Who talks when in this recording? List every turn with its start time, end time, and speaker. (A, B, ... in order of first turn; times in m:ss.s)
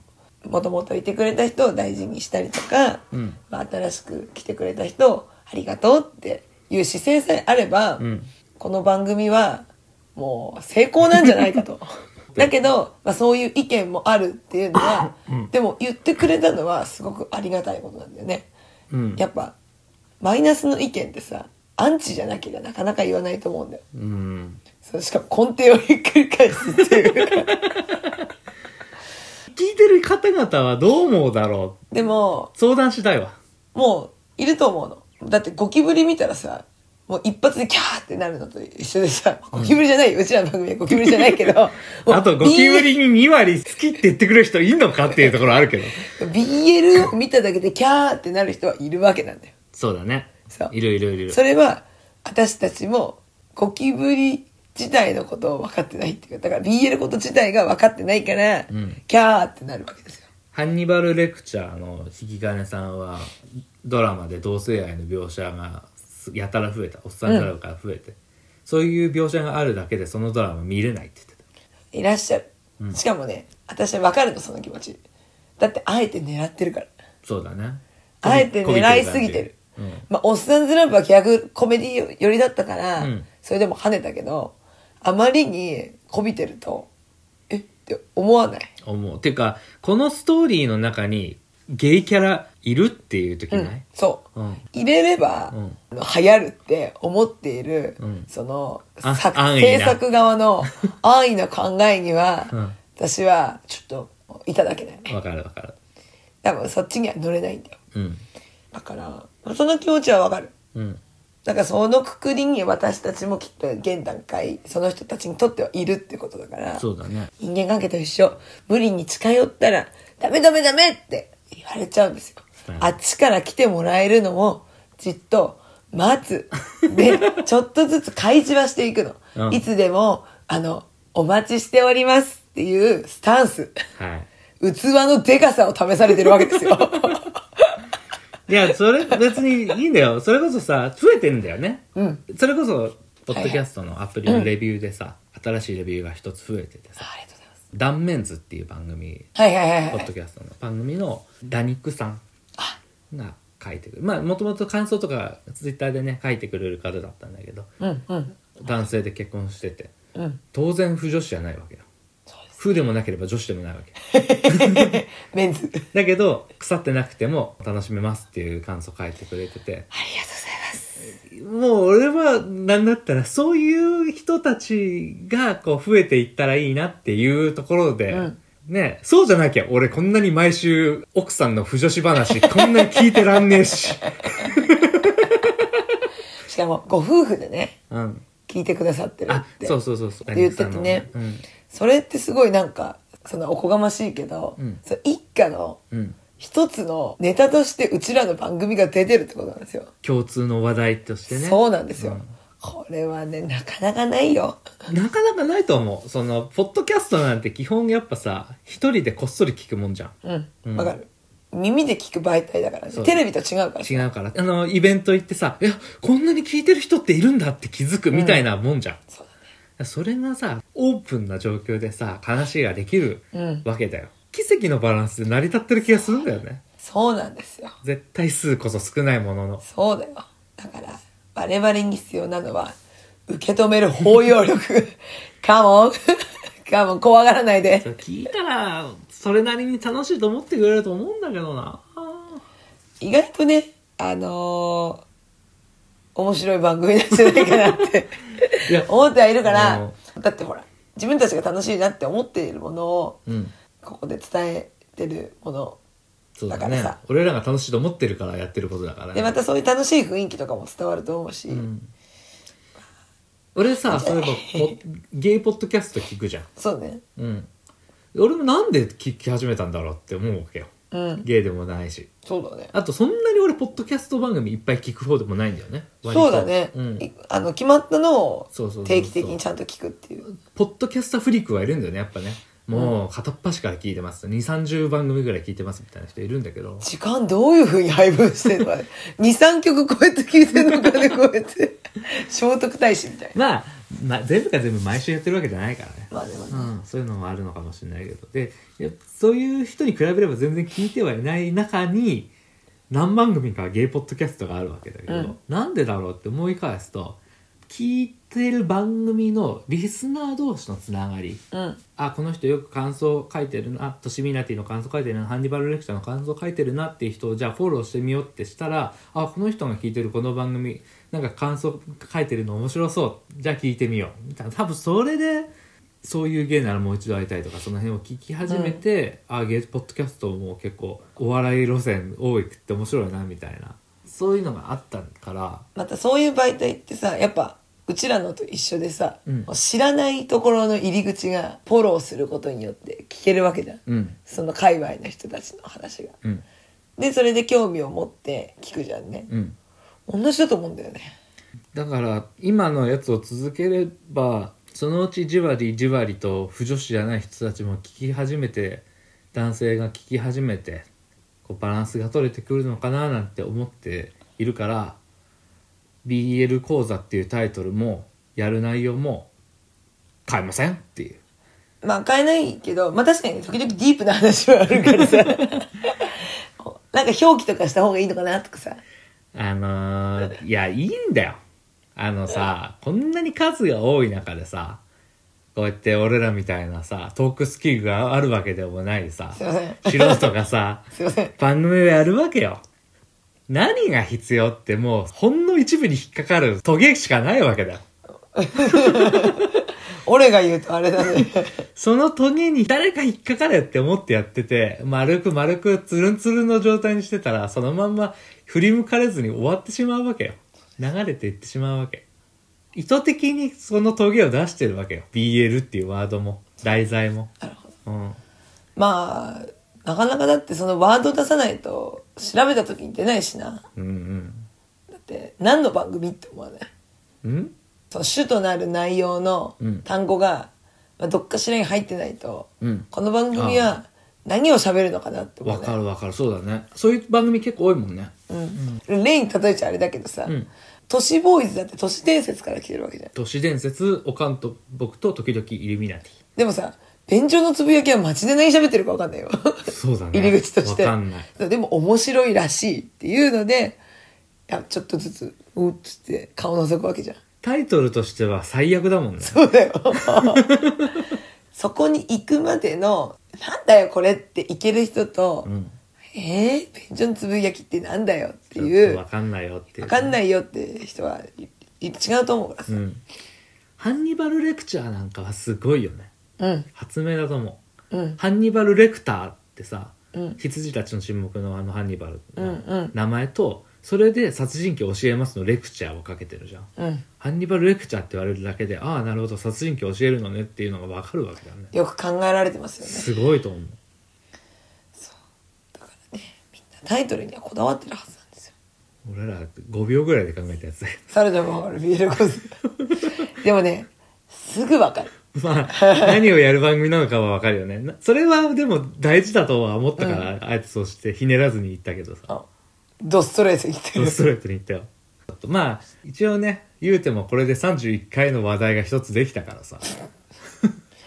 0:00.4-0:08.0 A
0:03.1-0:03.4 B
0:08.0-0:08.3 B
0:08.6-0:18.5 A
0:18.9-0:19.2 B
0:19.2-0:19.6 A
0:20.2-0:23.8 A
0:23.9-0:24.6 B
0:24.8-0:27.6 A
0:26.6-0:28.2 B
0:29.5-0:31.8 B
0:31.9-0:32.5 A
0:32.6-0:33.4 B
0:33.8-0:42.9 A
0:40.9-0:46.1 B
0:46.0-0:49.5 A
0:49.7-0:51.4 B
0:51.3-1:00.2 A
0:58.7-0:59.0 B
1:00.5-1:11.4 B
1:07.3-1:07.5 A
1:11.9-1:15.0 A
1:15.6-1:16.9 A
1:17.2-1:20.1 B
1:18.2-1:19.6 A
1:20.1-1:26.9 A
1:23.0-1:23.3 B
1:27.5-1:28.7 A
1:28.8-1:33.8 B
1:33.5-1:45.1 A
1:34.4-1:34.6 B
1:35.5-1:35.8 B
1:38.0-1:38.3 B
1:39.0-1:40.0 B
1:42.5-1:42.8 B
1:45.1-1:45.8 B
1:46.4-1:47.8 A
1:47.9-1:48.2 B
1:48.7-1:50.5 A
1:50.7-1:51.0 B
1:51.4-1:56.8 A
1:56.8-1:57.3 B
1:57.4-2:13.8 A
2:02.7-2:03.0 B
2:09.4-2:09.6 B
2:14.0-2:14.3 B
2:14.6-2:17.8 A
2:16.2-2:17.2 B
2:18.5-2:27.1 B
2:22.0-2:22.2 A
2:23.3-2:23.6 A
2:27.0-2:27.4 A
2:27.7-2:29.3 B
2:29.4-2:30.1 A
2:29.9-2:32.2 B
2:33.1-2:37.7 B
2:37.8-2:38.4 A
2:38.6-2:39.9 B
2:40.2-2:40.4 A
2:40.5-2:41.9 B
2:42.6-2:45.0 B
2:44.1-2:45.8 A
2:45.9-2:49.9 B
2:49.9-2:51.0 A
2:51.2-3:05.6 B
2:58.1-2:58.4 A
3:02.4-3:03.2 A
3:06.4-3:07.8 A
3:07.9-3:08.2 B
3:08.5-3:09.8 A
3:09.3-3:11.4 B
3:10.3-3:11.1 A
3:11.7-3:15.8 A
3:15.9-3:16.2 B
3:16.4-3:19.9 A
3:20.0-3:22.3 B
3:21.3-3:24.6 A
3:24.9-3:31.0 B
3:30.2-3:34.1 A
3:32.9-3:33.2 B
3:33.8-3:39.0 B
3:38.1-3:38.4 A
3:39.8-3:46.6 B
3:43.3-3:43.7 A
3:46.8-3:47.8 A
3:47.8-3:49.6 B
3:49.6-3:52.8 A
3:53.3-3:57.9 A
3:57.8-4:02.4 B
4:03.0-4:05.0 A
4:06.2-4:13.2 A
4:07.2-4:07.8 B
4:09.4-4:10.0 B
4:13.3-4:13.5 B
4:13.8-4:15.8 A
4:16.4-4:19.3 B
4:16.5-4:17.0 A
4:19.1-4:21.7 A
4:21.5-4:21.9 B
4:23.6-4:26.5 B
4:23.9-4:24.8 A
4:26.6-4:27.0 A
4:27.2-4:27.5 B
4:28.1-4:30.7 B
4:30.9-4:31.3 A
4:31.2-4:32.1 B
4:32.3-4:32.7 A
4:32.7-4:37.1 B
4:36.1-4:40.3 A
4:38.5-4:39.4 B
4:40.3-4:46.9 B
4:46.8-4:53.4 A
4:53.3-5:02.3 B
4:56.1-4:56.7 A
5:02.9-5:11.4 B
5:05.1-5:05.4 A
5:11.5-5:11.8 A
5:12.0-5:25.5 B
5:26.0-5:35.7 B
5:28.5-5:28.8 A
5:35.8-5:46.2 A
5:43.9-5:44.2 B
5:47.0-5:49.3 A
5:49.3-5:49.6 B
5:50.1-5:51.1 A
5:51.7-6:00.9 B
6:01.4-6:05.0 B
6:06.0-6:09.3 B
6:10.3-6:11.2 B
6:11.8-6:18.8 A
6:14.8-6:15.4 B
6:19.3-6:21.4 B
6:22.0-6:24.8 B
6:25.6-6:30.9 B
6:29.4-6:30.3 A
6:31.0-6:31.3 A
6:31.4-6:32.6 B
6:33.5-6:37.8 B
6:38.4-6:41.6 A
6:38.6-6:39.5 B
6:41.8-6:52.0 B
6:52.8-6:57.3 B
6:57.4-6:57.7 A
6:57.9-6:58.2 B
6:58.8-7:03.6 A
7:03.8-7:04.5 B
7:04.9-7:06.7 A
7:07.2-7:07.5 B
7:07.9-7:15.8 A
7:09.6-7:09.9 B
7:12.6-7:13.7 B
7:15.4-7:18.8 B
7:18.3-7:20.3 A
7:20.9-7:23.1 A
7:23.2-7:26.2 B
7:26.4-7:33.8 A
7:29.7-7:31.3 B
7:34.5-7:37.2 A
7:37.4-7:39.4 B
7:39.2-7:40.6 A
7:40.1-7:41.1 B
7:41.5-7:45.5 A
7:45.4-7:45.7 B
7:46.1-7:49.0 A
7:48.6-7:50.2 B
7:49.8-7:52.8 A
7:52.7-7:53.0 B
7:53.8-7:56.1 B
7:56.4-7:56.7 A
7:56.8-7:57.6 B
7:57.9-7:58.2 A
7:58.2-8:11.7 B
8:00.1-8:00.4 A
8:02.4-8:02.9 A
8:06.8-8:07.0 A
8:11.7-8:13.1 A
8:12.8-8:13.8 B
8:15.8-8:18.5 A
8:19.0-8:21.0 B
8:21.1-8:22.6 A
8:23.2-8:25.1 A
8:25.3-8:32.3 B
8:25.7-8:26.2 A
8:30.0-8:30.3 A
8:33.0-8:34.2 A
8:34.0-8:39.9 B